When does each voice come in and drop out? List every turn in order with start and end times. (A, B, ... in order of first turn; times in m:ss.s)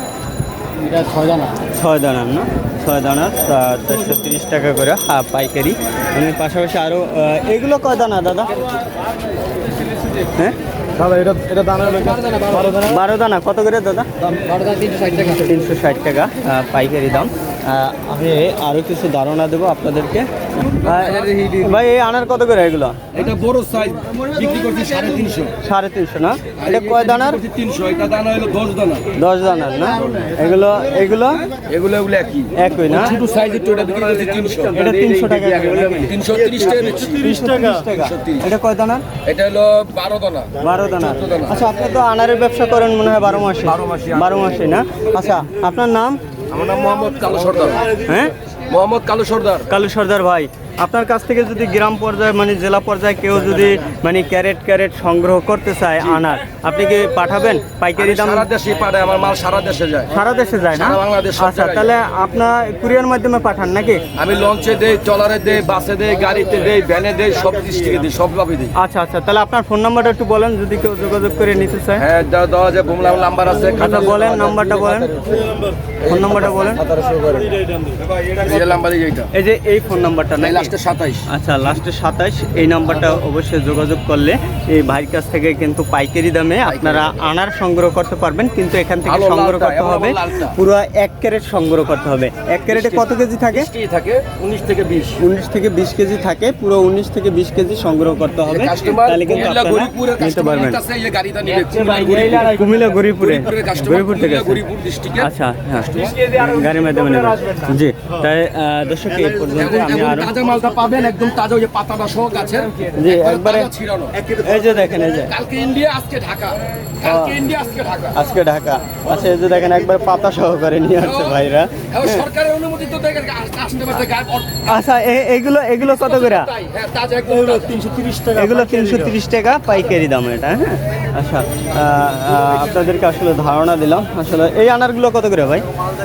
0:00.9-0:01.5 A
0:01.1-0:01.4 B
0:01.6-0:08.6 C
0:10.2-0:10.6 C
0:11.0-0:12.8 A
0:11.8-0:12.8 B
0:12.7-0:14.1 C
0:14.4-0:15.3 A
0:14.5-0:15.1 B
0:15.3-0:23.0 C
0:20.8-0:21.7 A
0:23.1-0:25.5 A
0:25.6-0:27.4 C
0:26.6-0:29.1 A
0:29.2-0:31.5 C
0:31.6-0:37.3 A
0:32.6-0:33.2 C
0:34.4-0:39.0 C
0:37.9-0:38.5 A
0:39.2-0:41.6 A
0:40.6-0:46.2 C
0:43.6-0:44.6 A
0:46.5-0:47.9 A
0:48.0-0:48.3 C
0:48.7-0:49.7 A
0:49.7-0:58.5 C
0:58.0-1:00.2 A
1:00.1-1:04.0 C
1:00.7-1:01.9 A
1:04.2-1:08.7 A
1:08.8-1:12.0 C
1:12.0-1:17.6 A
1:13.6-1:15.1 C
1:16.0-1:16.8 C
1:18.2-1:19.3 A
1:19.3-1:20.7 C
1:20.4-1:21.3 A
1:21.3-1:33.7 C
1:26.6-1:27.1 A
1:29.0-1:30.6 A
1:32.7-1:35.2 A
1:35.2-1:40.8 C
1:38.5-1:42.6 A
1:41.6-1:44.6 C
1:43.2-1:46.3 A
1:45.2-1:50.3 C
1:49.4-1:54.3 A
1:53.0-1:53.7 C
1:54.3-1:55.3 C
1:55.2-1:58.2 A
1:57.0-1:57.4 C
1:58.1-2:02.2 C
2:01.0-2:04.7 A
2:04.6-2:06.5 C
2:05.8-2:07.8 A
2:07.6-2:09.1 B
2:08.3-2:15.6 C